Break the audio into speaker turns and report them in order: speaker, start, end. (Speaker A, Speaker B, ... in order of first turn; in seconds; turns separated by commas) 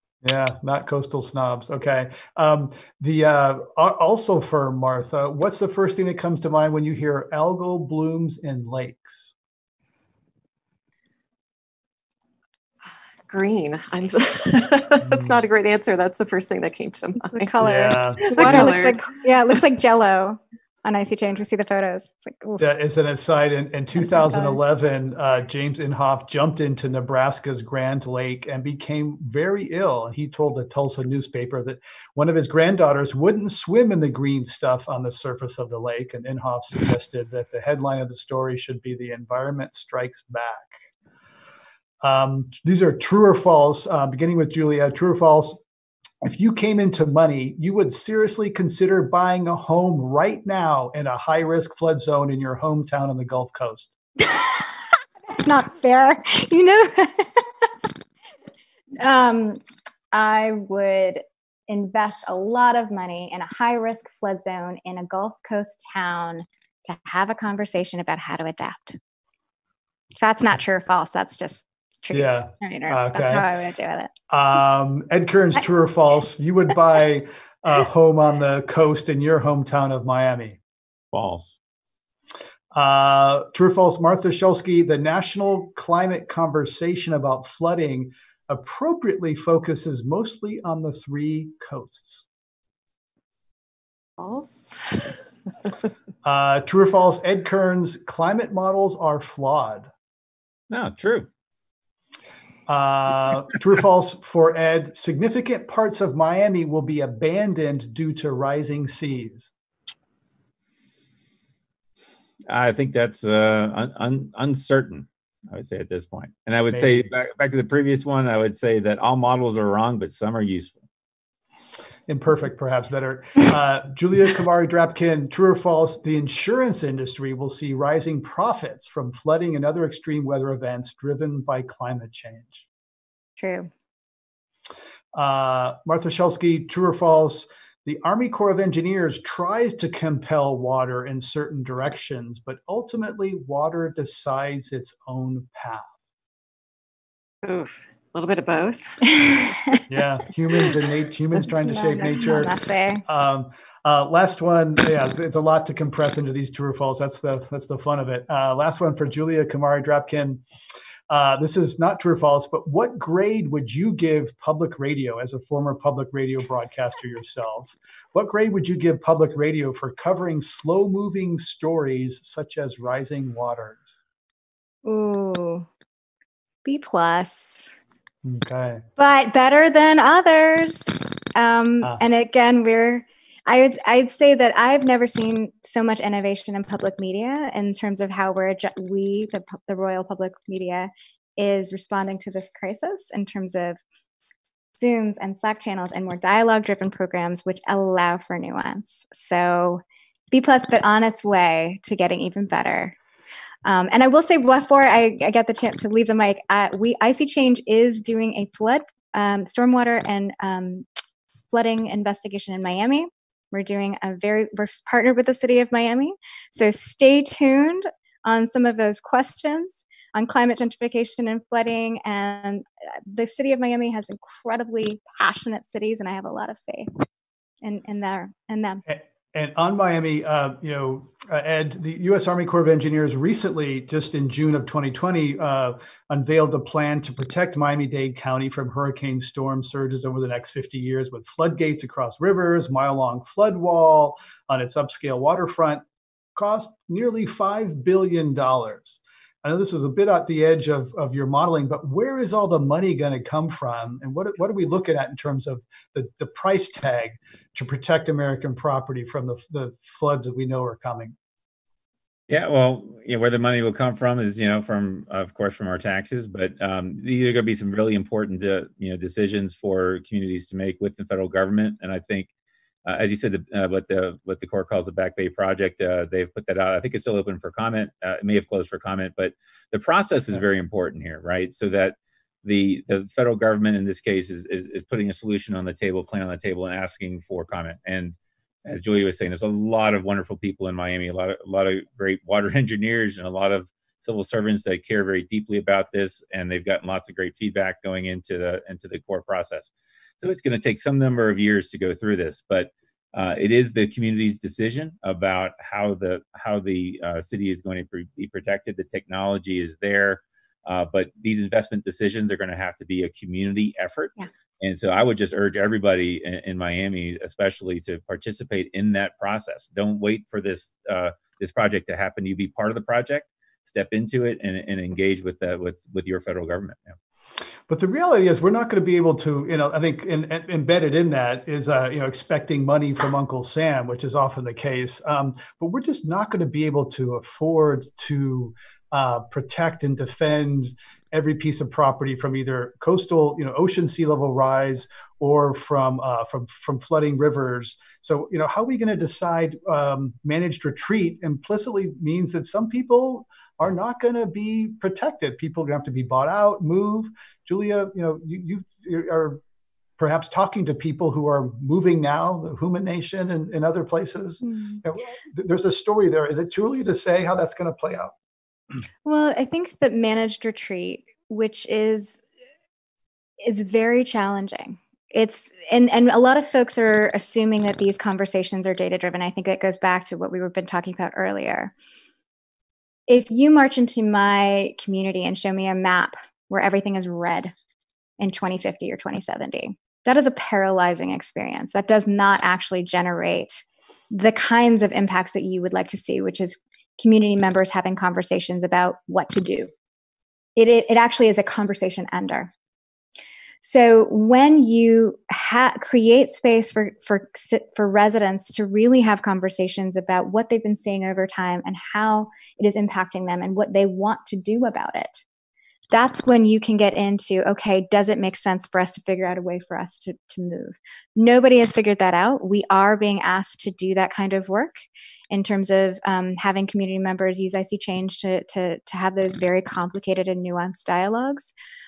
Speaker A: 0.2-9.3, Speaker B: 13.3-19.1, Speaker A: 15.0-15.4, Speaker C: 17.3-22.7, Speaker A: 17.6-18.8, Speaker A: 22.6-40.8, Speaker C: 24.0-24.6, Speaker A: 42.0-45.6, Speaker A: 46.2-53.9, Speaker C: 54.3-54.6, Speaker C: 55.3-57.7, Speaker C: 58.9-59.6, Speaker C: 60.1-69.0, Speaker C: 70.1-74.1, Speaker A: 72.1-73.5, Speaker A: 74.3-80.6, Speaker D: 81.1-81.5, Speaker A: 82.7-92.2, Speaker B: 94.2-95.1, Speaker A: 96.2-99.9, Speaker D: 100.7-101.3, Speaker A: 102.7-109.5, Speaker D: 112.5-120.7, Speaker A: 116.7-117.0, Speaker A: 122.1-132.6, Speaker C: 133.4-133.7, Speaker A: 135.1-146.0, Speaker B: 147.4-149.2, Speaker C: 149.2-149.4, Speaker A: 149.9-152.5, Speaker C: 151.6-153.0, Speaker A: 153.1-160.4, Speaker A: 161.1-173.9, Speaker C: 174.8-175.7, Speaker C: 176.6-177.8, Speaker A: 178.2-178.8, Speaker C: 179.0-193.8, Speaker C: 194.8-202.9, Speaker C: 203.6-210.8, Speaker C: 211.5-227.0, Speaker C: 227.6-228.8, Speaker A: 228.9-245.8, Speaker A: 246.3-261.1, Speaker D: 262.3-272.3, Speaker D: 272.8-327.0, Speaker A: 327.7-359.4, Speaker A: 360.0-368.1, Speaker C: 364.4-364.8, Speaker C: 369.0-372.2, Speaker C: 373.4-381.7, Speaker C: 383.1-387.5, Speaker C: 388.2-399.7, Speaker C: 400.6-402.5, Speaker C: 403.6-415.2, Speaker C: 415.9-431.5